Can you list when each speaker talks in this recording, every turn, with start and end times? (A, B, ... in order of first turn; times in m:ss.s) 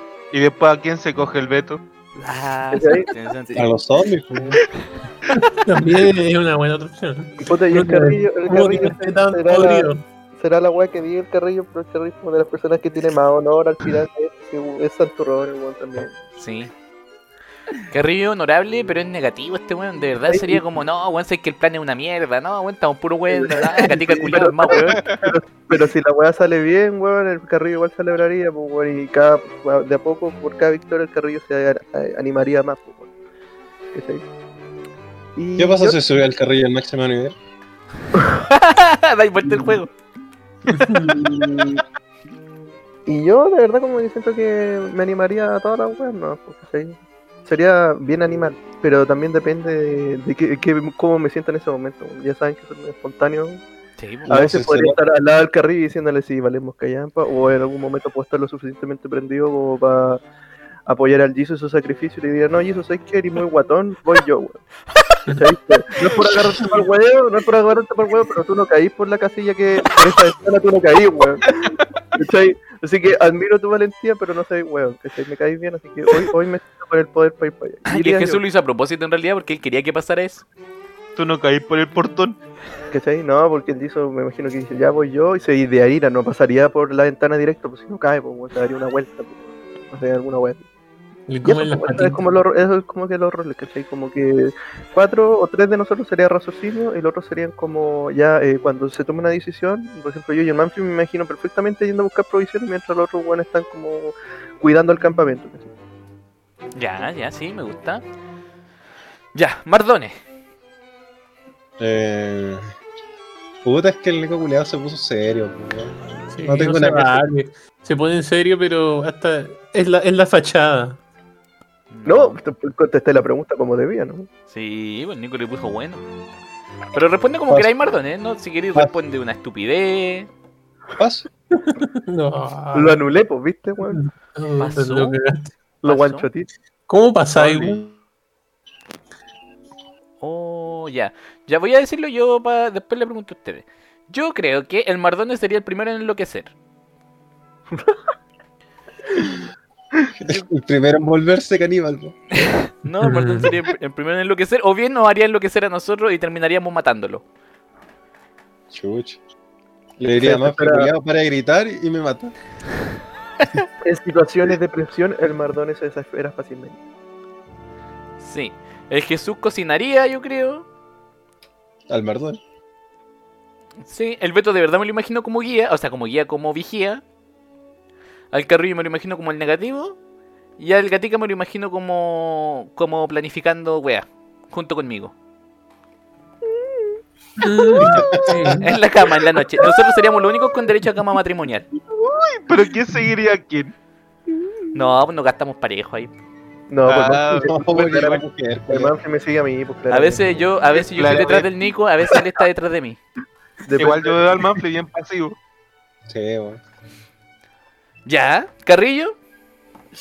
0:00.3-0:01.8 A
0:02.2-0:03.8 B
0:02.7-0:03.1 C
0:03.6-0:04.6 D
0:05.3-0:10.0 E
0:07.4-0:16.1 C
0:16.4-0:16.7 B
0:17.9-0:25.0 B
0:20.3-0:20.6 C
0:23.3-0:33.1 C
0:25.0-0:25.3 A
0:33.9-0:34.2 C
0:35.4-0:36.0 C
0:35.6-0:37.4 D
0:38.4-0:39.9 B
0:40.7-0:41.1 E
0:41.1-0:41.8 C
0:43.1-0:53.6 C
0:54.0-0:54.3 B
0:54.3-0:55.0 D
0:54.3-1:00.2 C
1:00.9-1:04.6 C
1:05.3-1:18.4 C
1:17.9-1:20.4 B
1:21.2-1:22.4 A
1:22.9-1:30.6 C
1:31.3-1:32.2 E
1:31.4-1:45.7 C
1:46.8-1:48.0 B
1:49.4-1:50.1 B
1:51.8-1:52.7 D
1:53.6-1:57.2 D
1:56.3-2:01.0 E
2:01.9-2:02.4 B
2:02.0-2:04.3 C
2:04.5-2:06.0 B
2:06.9-2:10.3 B
2:11.0-2:11.3 D
2:11.5-2:13.0 E
2:12.7-2:14.0 C
2:13.9-2:15.5 E
2:14.6-2:15.2 B
2:15.8-2:16.5 C
2:15.8-2:16.3 B
2:16.9-2:17.9 E
2:17.4-2:17.8 D
2:20.2-2:26.5 B
2:30.2-2:32.1 D
2:32.3-2:37.2 B
2:33.0-2:33.5 E
2:38.7-2:39.2 D
2:40.0-2:42.3 D
2:40.2-2:40.9 C
2:43.8-2:46.8 C
2:48.2-2:50.6 B
2:51.9-2:52.4 D
2:53.8-2:57.0 B
2:58.3-3:00.0 B
3:00.6-3:05.1 B
3:06.7-3:07.0 C
3:07.4-3:08.7 E
3:07.8-3:08.6 D
3:08.6-3:11.7 B
3:11.9-3:13.7 A
3:14.7-3:16.1 B
3:16.7-3:20.3 C
3:16.8-3:17.6 A
3:17.3-3:18.9 D
3:19.9-3:23.0 B
3:20.8-3:21.5 A
3:23.6-3:24.4 C
3:23.8-3:25.4 A
3:26.1-3:26.6 D
3:28.1-3:29.2 B